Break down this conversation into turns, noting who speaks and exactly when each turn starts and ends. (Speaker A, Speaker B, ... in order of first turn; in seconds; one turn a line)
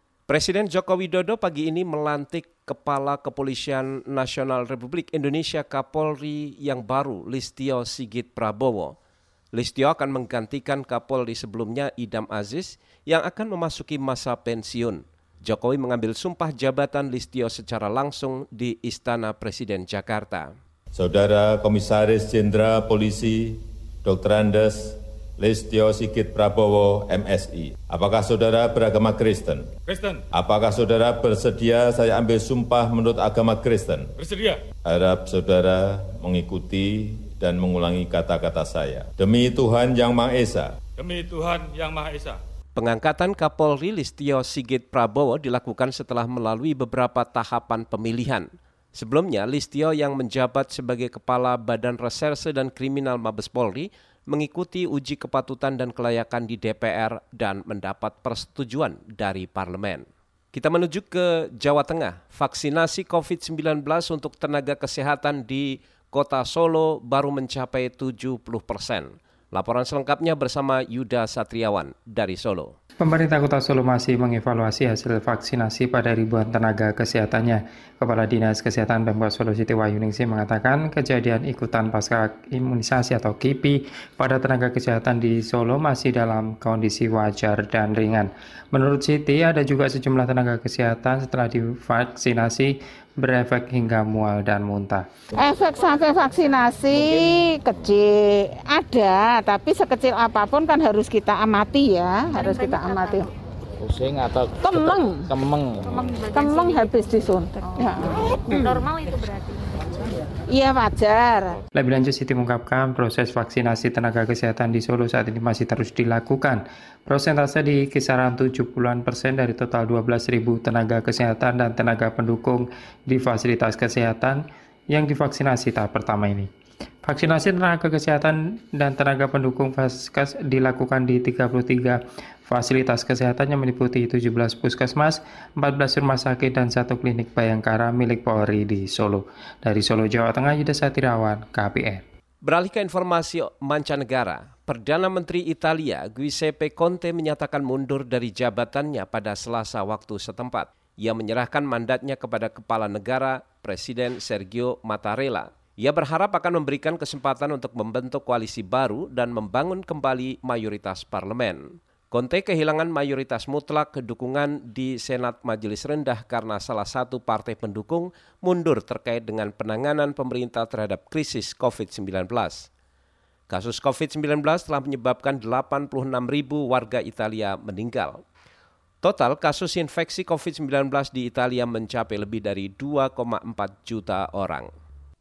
Speaker A: 0.3-8.9
Speaker A: 9.5-20.5
Speaker B: 20.9-29.7
Speaker C: 29.9-30.2
Speaker B: 30.3-34.1
Speaker C: 34.2-34.6
Speaker B: 34.8-40.8
Speaker C: 41.0-42.4
Speaker A: 42.8-72.7
Speaker D: 73.0-95.0
Speaker E: 95.4-103.3
Speaker F: 96.9-97.4
Speaker G: 102.3-103.3
Speaker F: 103.8-106.1
Speaker E: 104.6-105.3
Speaker G: 105.8-107.1
Speaker E: 106.3-108.8
Speaker G: 107.7-110.0
Speaker E: 110.5-111.6
Speaker D: 111.7-126.5
Speaker D: 127.0-142.0
Speaker A: 142.4-172.7
Speaker A: 173.5-178.2
Speaker A: 179.0-184.7